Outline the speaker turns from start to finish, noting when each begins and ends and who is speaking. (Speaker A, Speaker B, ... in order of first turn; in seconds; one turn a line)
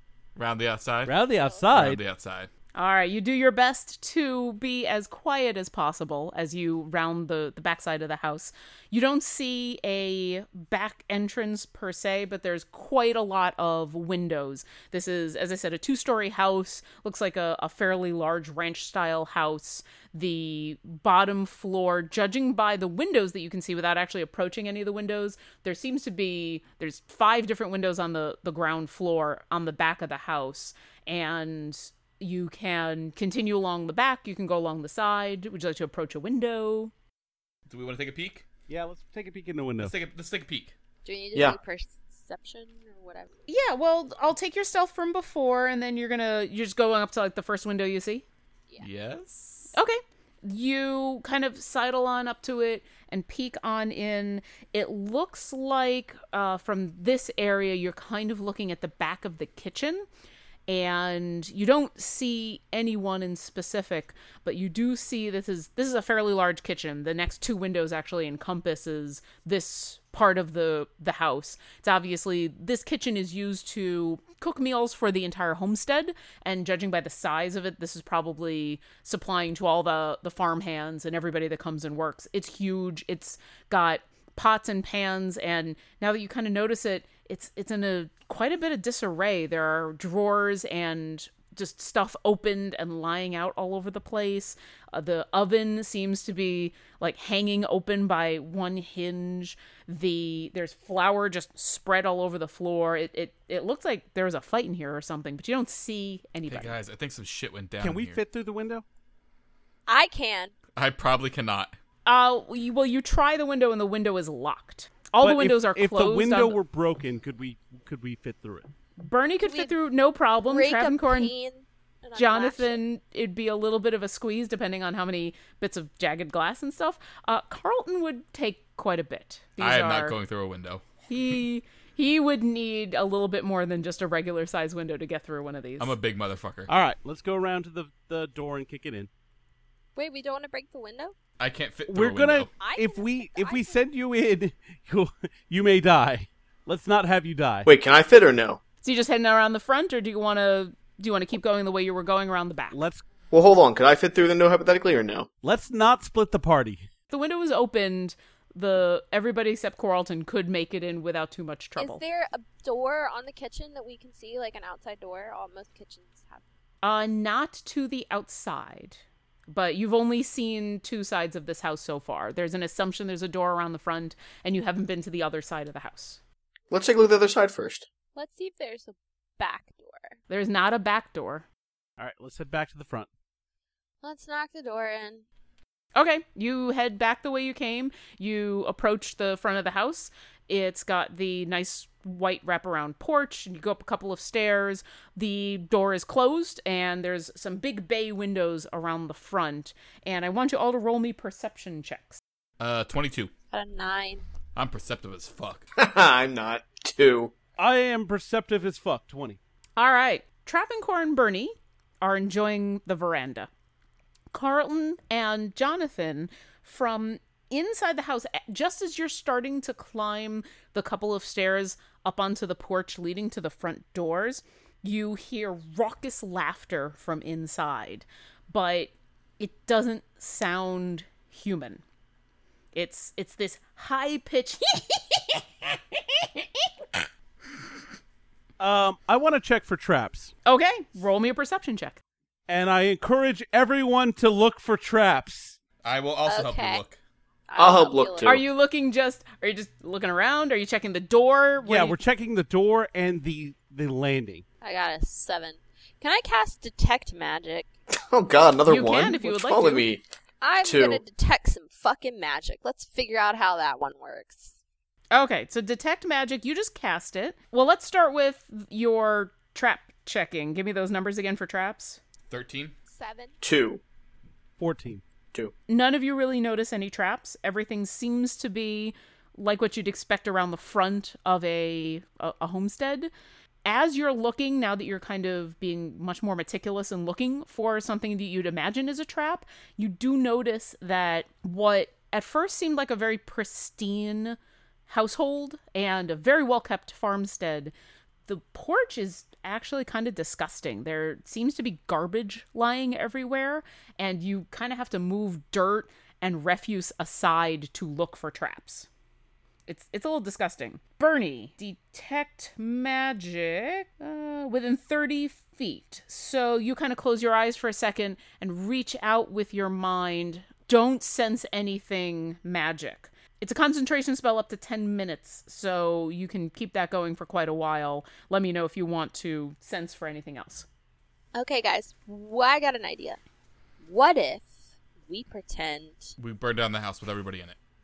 Speaker A: 0.4-1.2
Speaker B: 1.1-2.0
Speaker A: 1.7-2.5
Speaker C: 2.8-36.9
Speaker A: 37.7-38.5
Speaker B: 38.7-39.9
Speaker A: 39.8-40.7
Speaker D: 41.0-43.3
Speaker C: 43.5-48.2
Speaker A: 48.8-49.7
Speaker C: 49.7-60.1
Speaker C: 60.7-106.8
Speaker A: 106.5-108.2
Speaker B: 107.8-108.8
Speaker D: 109.9-110.5
Speaker A: 110.8-111.7
Speaker C: 112.1-116.6
Speaker B: 115.2-118.7
Speaker C: 119.0-121.3
Speaker D: 119.4-119.7
Speaker D: 120.5-122.8
Speaker C: 122.2-130.2
Speaker A: 129.6-130.8
Speaker C: 131.1-135.9
Speaker A: 135.8-136.7
Speaker B: 136.7-139.1
Speaker D: 140.0-141.1
Speaker A: 141.4-142.5
Speaker B: 141.9-147.7
Speaker D: 142.6-143.8
Speaker E: 147.7-148.6
Speaker C: 148.8-152.8
Speaker B: 152.7-153.0
Speaker E: 153.3-155.3
Speaker B: 155.4-156.9
Speaker C: 157.1-162.0
Speaker D: 161.8-166.4
Speaker C: 166.8-176.2
Speaker E: 176.7-177.9
Speaker D: 178.2-180.2
Speaker C: 180.3-181.4
Speaker B: 182.0-183.1
Speaker D: 184.0-185.2
Speaker C: 186.0-202.2
Speaker A: 202.6-203.3
Speaker D: 203.5-204.2
Speaker A: 204.6-205.7
Speaker E: 205.8-207.3
Speaker B: 207.6-209.4
Speaker C: 209.8-213.5
Speaker C: 214.3-231.8
Speaker C: 232.7-236.7
Speaker B: 238.6-240.3
Speaker C: 240.5-242.0
Speaker B: 242.5-245.6
Speaker A: 245.8-247.0
Speaker D: 246.3-246.8
Speaker D: 247.5-248.4
Speaker E: 247.6-248.4
Speaker C: 248.2-252.0
Speaker B: 251.6-254.4
Speaker D: 254.6-257.7
Speaker E: 258.0-260.0
Speaker C: 258.7-259.9
Speaker D: 260.4-264.6
Speaker E: 260.6-261.0
Speaker C: 265.1-272.0
Speaker A: 272.3-272.8
Speaker D: 272.9-273.3
Speaker E: 273.4-273.8
Speaker B: 274.6-275.0
Speaker C: 275.7-283.1
Speaker C: 283.6-294.4
Speaker C: 294.9-297.7
Speaker C: 298.3-308.9
Speaker C: 309.7-330.7
Speaker D: 331.4-333.2
Speaker D: 333.9-334.5
Speaker D: 335.1-336.1
Speaker A: 336.2-337.6